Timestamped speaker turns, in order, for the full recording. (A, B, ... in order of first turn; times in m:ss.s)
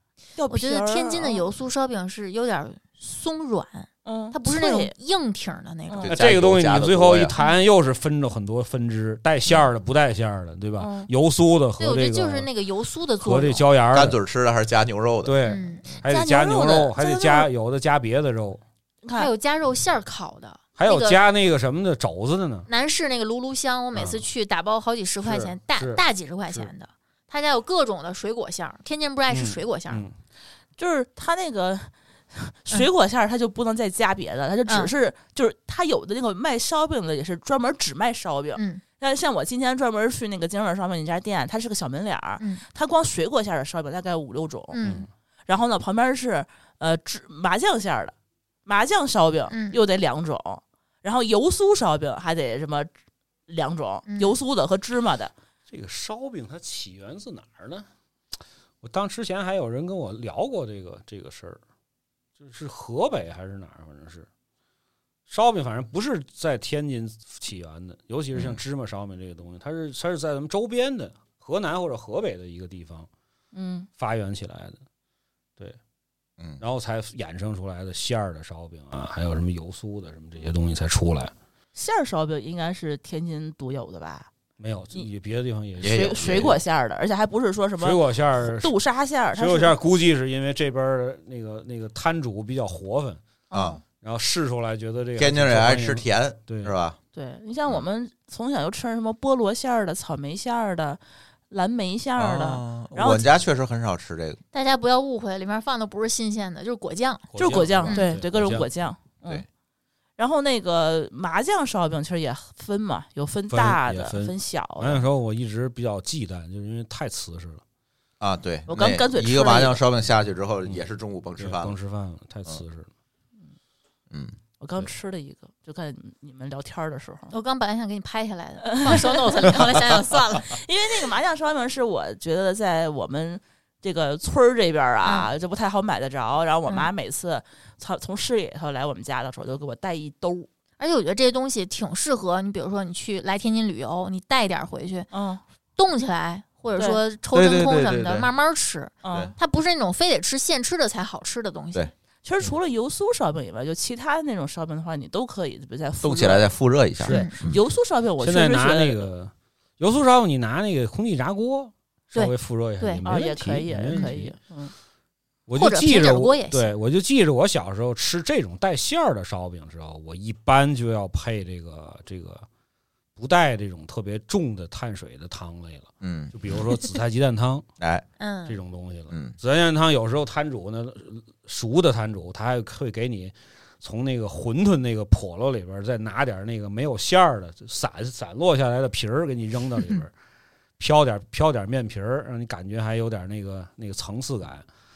0:00.4-0:01.5 A
0:00.5-0:06.1 B
0:04.0-0:04.9 A
0:05.9-0:06.1 A
0:06.0-0:07.3 C
0:06.1-0:12.5 D
0:07.3-0:07.6 B
0:10.8-0:11.1 A
0:11.8-0:13.6 B
0:13.2-0:14.2 D
0:13.9-0:15.4 C
0:15.2-0:18.6 D
0:15.5-0:15.8 B
0:16.0-0:17.5 A
0:19.0-0:19.3 A
0:19.2-0:21.2 B
0:20.8-0:22.7 D
0:22.7-0:30.0 B
0:23.9-0:24.2 D
0:25.2-0:26.7 D
0:29.3-0:30.1 D
0:30.8-0:44.8 A
0:34.7-0:34.9 B
0:38.6-0:38.8 B
0:44.7-0:45.1 B
0:44.8-0:45.1 D
0:45.5-0:48.1 A
0:48.6-0:52.9 A
0:49.5-0:49.8 B
0:53.5-0:55.3 A
0:54.1-0:54.4 B
0:55.7-0:57.9 D
0:58.8-1:01.6 D
1:02.4-1:04.3 D
1:05.3-1:13.1 D
1:08.3-1:08.6 C
1:13.5-1:13.9 A
1:14.0-1:14.8 D
1:16.6-1:21.3 D
1:21.7-1:24.3 A
1:24.6-1:26.6 D
1:25.8-1:26.6 C
1:25.8-1:29.8 A
1:27.8-1:28.7 D
1:29.3-1:33.2 D
1:33.5-1:33.8 A
1:33.5-1:33.8 C
1:34.0-1:36.7 D
1:35.2-1:37.0 C
1:37.1-1:43.3 A
1:42.2-1:44.4 C
1:44.5-1:47.3 B
1:47.3-1:48.7 D
1:47.4-1:49.4 A
1:50.2-1:55.0 A
1:53.5-1:57.6 D
1:58.2-2:01.7 C
1:58.7-1:59.8 A
2:01.4-2:02.9 D
2:04.1-2:04.4 C
2:04.6-2:07.3 A
2:07.3-2:10.6 B
2:08.6-2:20.5 A
2:15.0-2:15.3 B
2:20.8-2:25.1 B
2:25.1-2:25.4 A
2:25.8-2:31.9 B
2:27.3-2:28.3 C
2:29.0-2:29.3 A
2:32.2-2:36.5 A
2:36.0-2:37.6 C
2:37.0-2:39.0 A
2:37.1-2:37.3 B
2:38.2-2:44.3 D
2:42.1-2:43.0 B
2:43.0-2:44.7 A
2:45.5-2:52.4 D
2:45.6-2:46.7 B
2:53.2-2:57.6 D
2:56.0-2:56.3 C
2:57.8-2:58.0 C
2:58.2-2:58.6 B
2:58.4-3:10.1 D
3:10.8-3:14.6 D